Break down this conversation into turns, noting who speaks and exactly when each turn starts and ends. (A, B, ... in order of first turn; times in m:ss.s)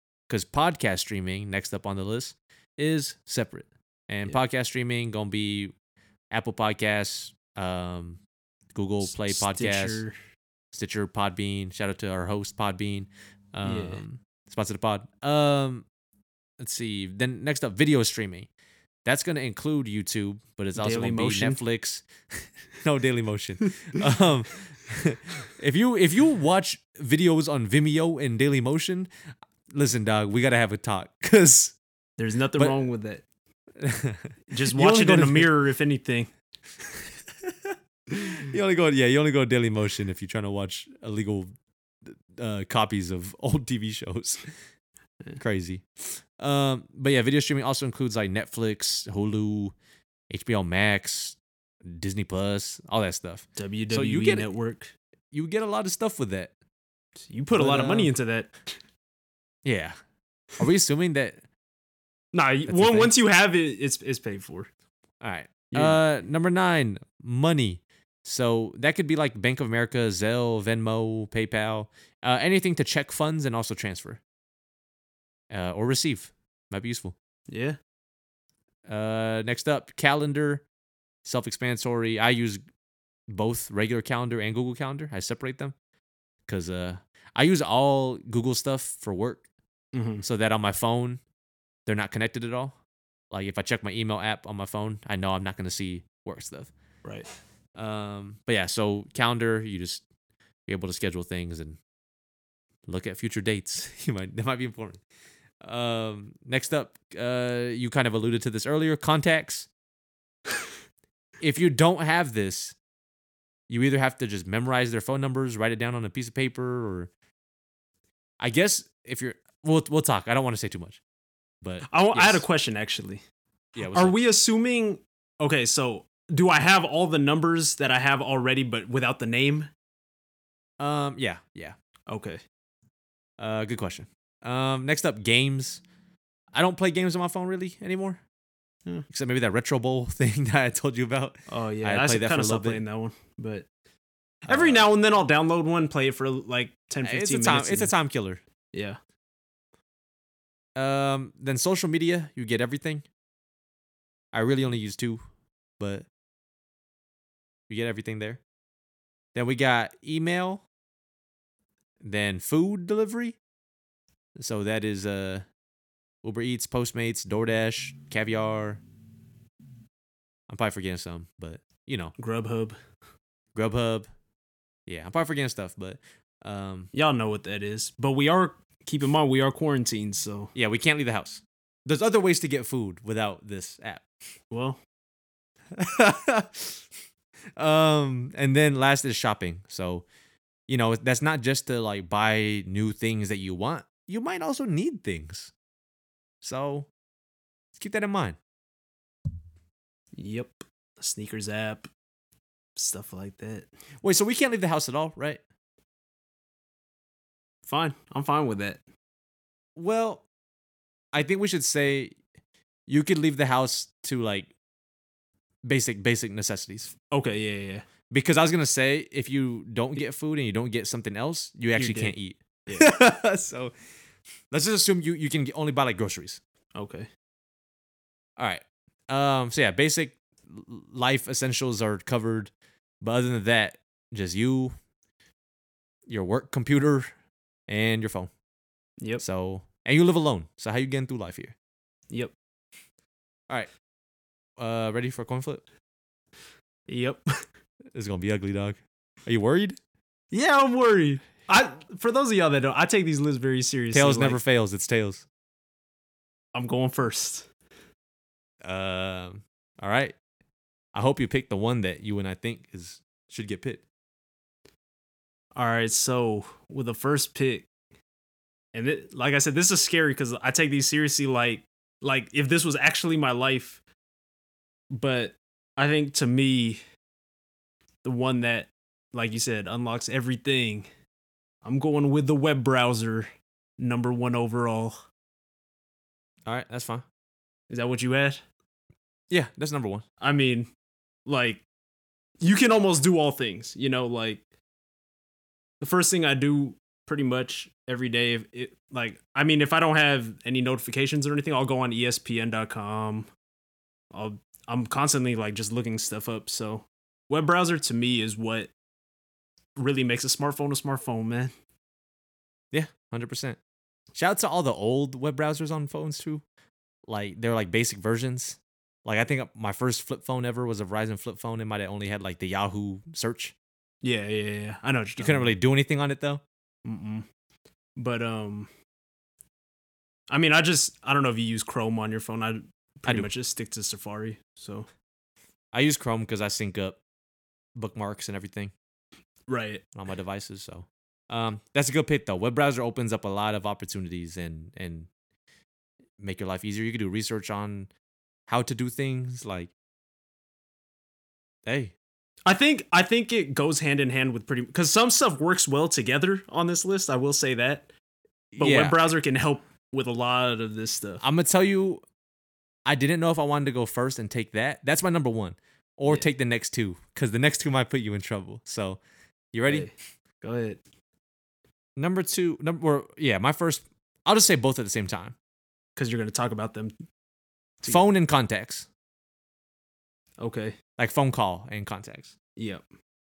0:00.3-0:05.7 A
0:06.3-0:08.2 A
0:08.7-0:10.0 A
0:09.0-0:10.2 B
0:10.7-0:15.8 A
0:13.6-0:14.0 B
0:16.6-0:18.5 A
0:19.0-0:22.1 A
0:20.8-0:21.6 B
0:22.8-0:29.1 A
0:29.7-0:31.8 A
0:32.2-0:33.2 B
0:32.6-0:32.8 A
0:33.8-0:35.5 A
0:34.5-0:36.3 B
0:37.4-0:41.5 A
0:42.0-0:44.5 A
0:45.4-0:49.7 A
0:50.3-0:54.5 A
0:53.6-0:54.9 B
0:55.3-0:56.5 A
0:57.2-0:58.6 B
0:57.5-0:58.1 A
0:59.6-1:00.0 A
1:00.6-1:01.4 A
1:02.3-1:04.7 B
1:02.7-1:03.1 A
1:05.2-1:14.2 A
1:05.7-1:06.0 B
1:15.5-1:17.1 A
1:17.5-1:17.8 B
1:18.9-1:20.6 A
1:21.2-1:22.6 A
1:23.3-1:25.7 A
1:26.5-1:29.4 A
1:29.9-1:30.2 B
1:30.2-1:31.2 A
1:31.8-1:32.8 A
1:33.3-1:36.7 A
1:37.7-1:40.0 A
1:40.7-1:41.8 A
1:42.9-1:45.0 A
1:45.6-1:49.7 A
1:51.4-1:52.8 A
1:53.7-1:57.1 A
1:58.4-2:01.0 A
2:01.6-2:02.4 A
2:01.9-2:03.2 B
2:03.7-2:04.2 A
2:03.8-2:09.7 B
2:10.8-2:11.8 A
2:12.1-2:12.4 B
2:13.4-2:15.8 A
2:16.5-2:18.2 A
2:19.1-2:22.8 A
2:21.5-2:23.6 B
2:24.4-2:27.9 B
2:24.5-2:24.9 A
2:27.0-2:28.4 A
2:28.7-2:29.0 B
2:30.8-2:33.0 A
2:34.3-2:35.2 A
2:35.8-2:36.0 A
2:37.7-2:38.4 A
2:39.3-2:40.6 A
2:42.0-2:43.4 A
2:44.4-2:45.4 A
2:46.2-2:48.8 A
2:50.5-2:52.1 A
2:52.2-2:52.8 B
2:53.5-2:54.1 A
2:54.9-2:56.9 A
2:56.9-3:00.5 B
3:00.5-3:04.0 A
3:04.5-3:04.8 B
3:05.8-3:06.8 A
3:07.6-3:10.0 A
3:10.7-3:15.5 A
3:16.4-3:16.9 A
3:17.8-3:18.4 A
3:20.2-3:21.9 B
3:22.8-3:23.7 B
3:24.0-3:25.4 A
3:27.6-3:28.8 B
3:29.8-3:30.2 A
3:31.1-3:32.2 A
3:32.9-3:34.5 A
3:35.6-3:36.9 A
3:37.1-3:37.8 B
3:38.1-3:43.7 A
3:41.8-3:42.1 B
3:44.5-3:46.4 A
3:46.7-3:47.1 B
3:48.4-3:54.8 A
3:56.1-3:57.1 A
3:57.7-3:58.3 A
3:59.2-4:01.5 A
4:04.6-4:05.6 A
4:06.9-4:07.2 B
4:07.9-4:09.8 A
4:10.3-4:14.4 B
4:13.9-4:15.2 A
4:16.5-4:17.5 B
4:18.6-4:20.2 A
4:20.9-4:23.8 A
4:25.6-4:27.7 B
4:28.7-4:33.8 B
4:34.9-4:36.8 B
4:38.0-4:40.9 B
4:41.6-4:45.0 B
4:46.4-4:47.0 A
4:47.7-4:48.4 B
4:49.3-4:50.0 A
4:50.2-4:50.7 B
4:51.2-4:51.6 B
4:52.4-4:54.4 B
4:55.8-5:03.3 B
5:04.1-5:08.7 B
5:09.8-5:11.5 B
5:12.7-5:13.6 A
5:14.1-5:16.4 A
5:17.1-5:23.5 A
5:24.0-5:25.5 B
5:25.2-5:26.4 A
5:26.8-5:27.2 B
5:28.0-5:28.7 B
5:30.3-5:34.9 B
5:35.7-5:37.0 A
5:37.8-5:38.7 A
5:39.5-5:39.8 B
5:39.9-5:45.1 A
5:46.2-5:47.9 A
5:48.5-5:49.7 A
5:51.6-5:51.9 A
5:52.4-5:57.9 B
5:58.5-5:59.0 A
5:58.6-6:01.2 B
6:01.2-6:02.0 A
6:02.8-6:09.0 A
6:09.5-6:09.9 A
6:10.4-6:10.8 B
6:12.0-6:15.4 A
6:16.0-6:16.9 B
6:17.8-6:18.9 A
6:20.4-6:20.8 B
6:21.0-6:22.3 A
6:22.6-6:22.8 B